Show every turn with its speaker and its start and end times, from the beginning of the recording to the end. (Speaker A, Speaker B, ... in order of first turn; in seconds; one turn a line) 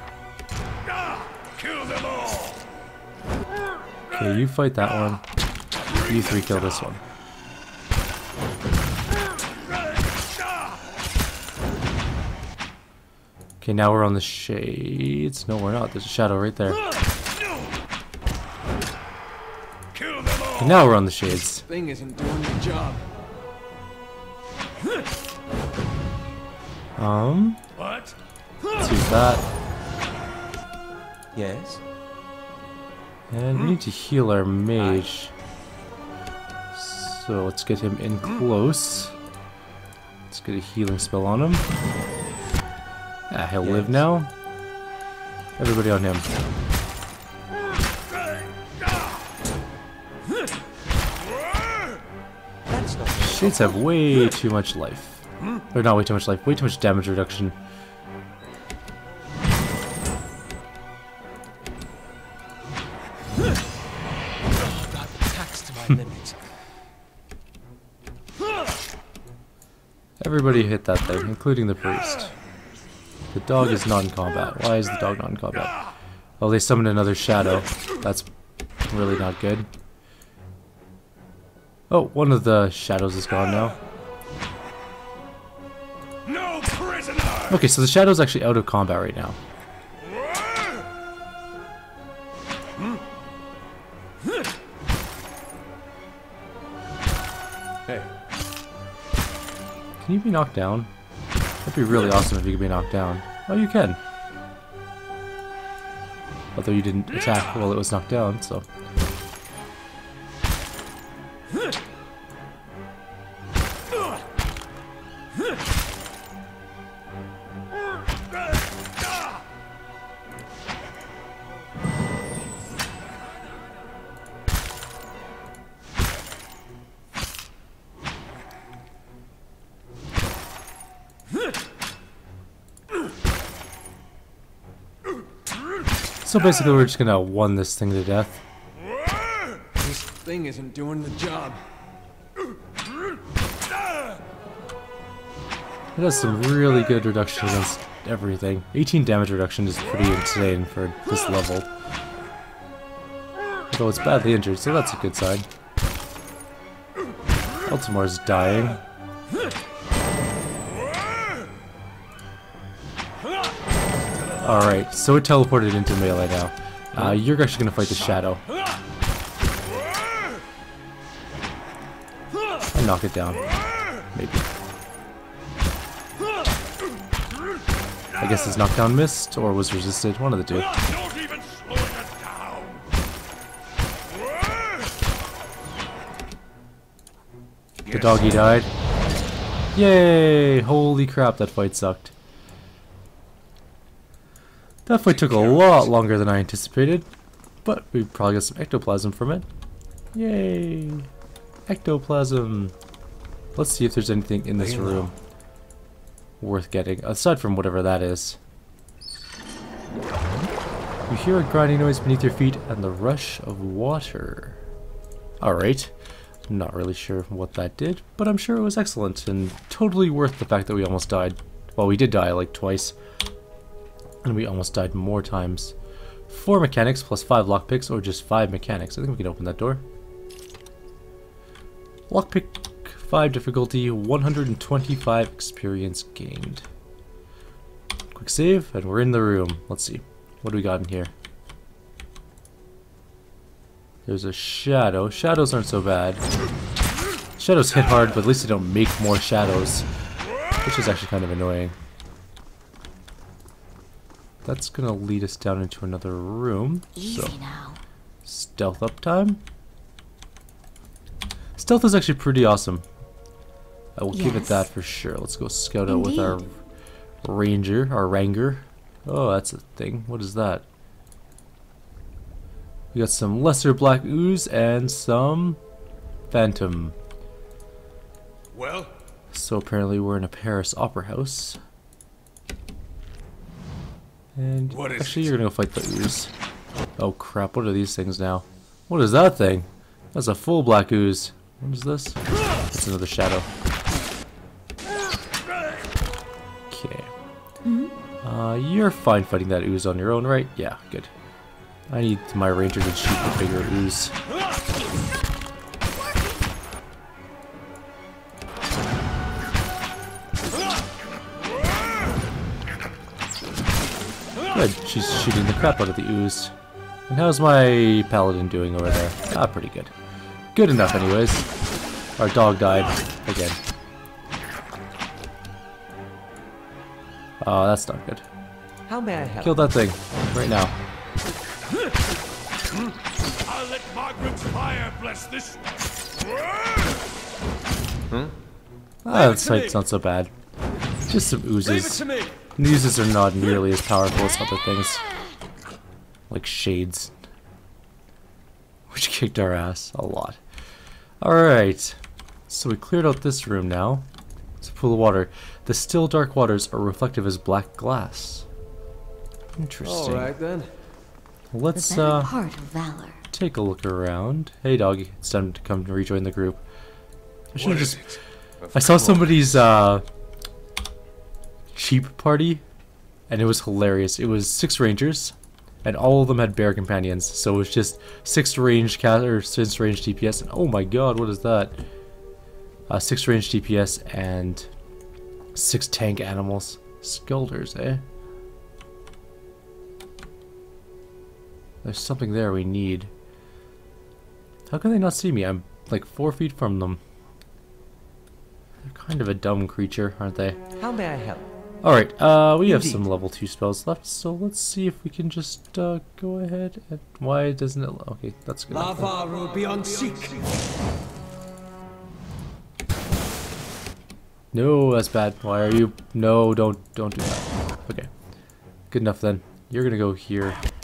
Speaker A: 1.6-2.6
Speaker B: 4.1-5.2
Speaker B: 6.0-7.0
Speaker B: 13.6-16.8
Speaker A: 19.9-20.9
Speaker B: 20.6-21.7
Speaker C: 21.7-23.0
Speaker B: 27.0-27.6
Speaker A: 27.8-28.2
Speaker B: 28.8-29.5
Speaker C: 31.3-31.8
Speaker B: 33.3-35.3
Speaker C: 34.8-35.1
Speaker B: 36.7-39.1
Speaker B: 40.3-41.6
Speaker B: 43.3-44.3
Speaker C: 43.6-44.0
Speaker B: 45.6-46.3
Speaker C: 52.7-53.8
Speaker B: 53.2-57.6
Speaker C: 64.5-66.4
Speaker B: 70.2-72.3
Speaker B: 73.3-75.8
Speaker B: 76.4-78.3
Speaker B: 78.9-79.7
Speaker B: 81.9-83.8
Speaker A: 86.3-87.5
Speaker B: 87.5-89.4
Speaker B: 100.0-100.9
Speaker B: 101.6-104.0
Speaker B: 106.5-108.7
Speaker B: 136.2-138.4
Speaker C: 139.8-141.6
Speaker B: 145.9-151.7
Speaker B: 153.7-155.5
Speaker B: 157.7-158.8
Speaker B: 164.4-168.4
Speaker B: 172.7-173.4
Speaker B: 174.1-174.5
Speaker B: 178.2-180.7
Speaker A: 180.7-182.9
Speaker B: 187.8-188.7
Speaker B: 189.7-192.1
Speaker B: 194.9-197.1
Speaker B: 197.7-199.5
Speaker B: 200.1-201.1
Speaker B: 201.7-202.7
Speaker B: 203.6-205.2
Speaker C: 204.6-205.1
Speaker B: 206.4-208.4
Speaker B: 211.1-214.6
Speaker B: 215.4-215.9
Speaker B: 216.5-223.0
Speaker B: 224.2-225.8
Speaker B: 226.3-229.8
Speaker B: 232.1-236.7
Speaker B: 238.1-241.1
Speaker B: 244.1-246.2
Speaker B: 247.4-249.9
Speaker B: 250.6-251.8
Speaker B: 254.4-257.4
Speaker D: 256.9-257.8
Speaker B: 258.2-259.4
Speaker B: 261.6-262.9
Speaker B: 264.0-266.5
Speaker D: 264.1-264.7
Speaker D: 265.9-266.4
Speaker B: 267.2-270.7
Speaker B: 272.9-275.6
Speaker B: 276.3-277.0
Speaker C: 278.5-278.9
Speaker B: 279.3-281.6
Speaker B: 284.4-286.3
Speaker B: 287.0-293.5
Speaker B: 296.7-297.1
Speaker D: 297.6-298.0
Speaker B: 298.2-301.1
Speaker B: 301.9-304.1
Speaker D: 305.9-306.5
Speaker B: 314.5-316.5
Speaker B: 317.1-319.9
Speaker B: 320.5-321.4
Speaker B: 322.2-323.6
Speaker B: 327.4-328.2
Speaker C: 328.9-329.7
Speaker B: 329.4-330.7
Speaker A: 333.4-335.8
Speaker B: 339.1-340.3
Speaker C: 339.1-339.8
Speaker B: 341.1-345.0
Speaker C: 341.6-342.4
Speaker B: 346.3-347.1
Speaker B: 348.9-350.4
Speaker B: 351.2-354.1
Speaker B: 354.6-358.5
Speaker B: 359.6-360.3
Speaker C: 359.8-360.7
Speaker B: 361.5-362.3
Speaker D: 361.8-363.2
Speaker B: 363.3-366.6
Speaker B: 367.5-368.2
Speaker C: 367.6-369.5
Speaker B: 368.7-370.0
Speaker B: 371.7-372.6
Speaker B: 373.3-381.8
Speaker B: 382.9-384.7
Speaker B: 385.6-388.0
Speaker B: 391.8-393.1
Speaker B: 394.7-397.0
Speaker B: 398.8-400.6
Speaker C: 400.8-401.5
Speaker B: 401.8-409.1
Speaker C: 402.6-403.0
Speaker C: 408.7-410.7
Speaker B: 414.5-418.1
Speaker B: 418.9-420.6